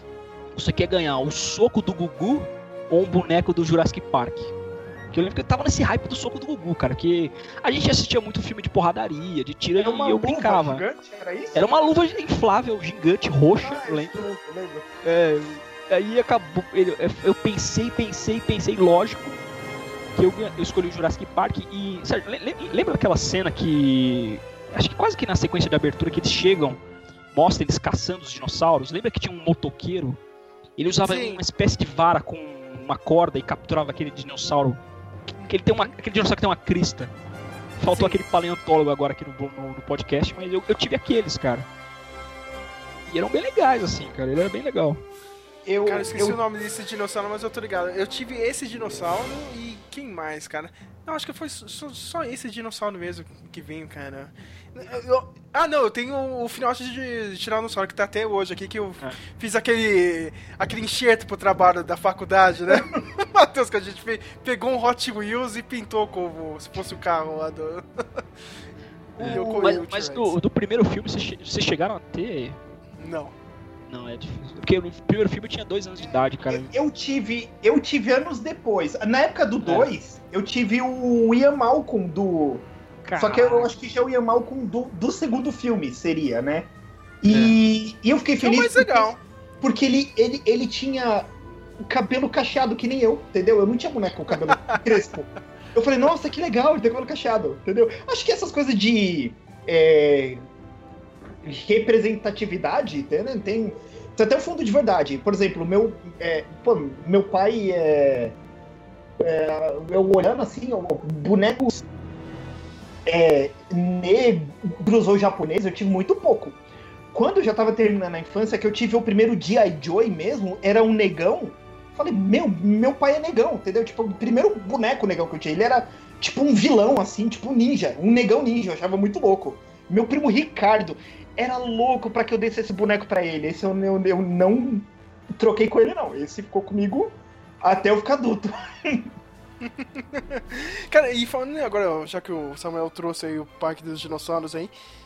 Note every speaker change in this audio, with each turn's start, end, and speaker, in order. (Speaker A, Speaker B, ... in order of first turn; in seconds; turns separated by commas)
Speaker A: 0.5-4.5, Speaker A: 5.1-10.8, Speaker B: 9.8-11.7, Speaker A: 11.5-14.2, Speaker B: 13.6-14.9, Speaker A: 15.0-19.4, Speaker A: 20.1-26.8, Speaker A: 27.3-30.2, Speaker A: 30.8-34.8, Speaker C: 31.0-31.4, Speaker C: 35.4-35.9, Speaker A: 35.5-37.1, Speaker A: 37.8-41.6, Speaker C: 37.9-38.2, Speaker A: 43.1-45.0, Speaker B: 45.6-46.4, Speaker C: 45.9-68.2, Speaker B: 69.2-69.8, Speaker A: 69.2-72.6, Speaker C: 69.3-70.3, Speaker C: 73.0-73.3, Speaker A: 73.9-76.7, Speaker B: 76.5-86.7, Speaker A: 79.6-79.9, Speaker A: 83.0-83.7, Speaker B: 87.2-100.5, Speaker A: 87.3-87.5, Speaker C: 88.4-89.2, Speaker C: 94.5-94.8, Speaker B: 101.4-108.3, Speaker B: 109.2-111.8, Speaker B: 113.0-116.6, Speaker B: 117.1-139.1, Speaker C: 139.8-144.7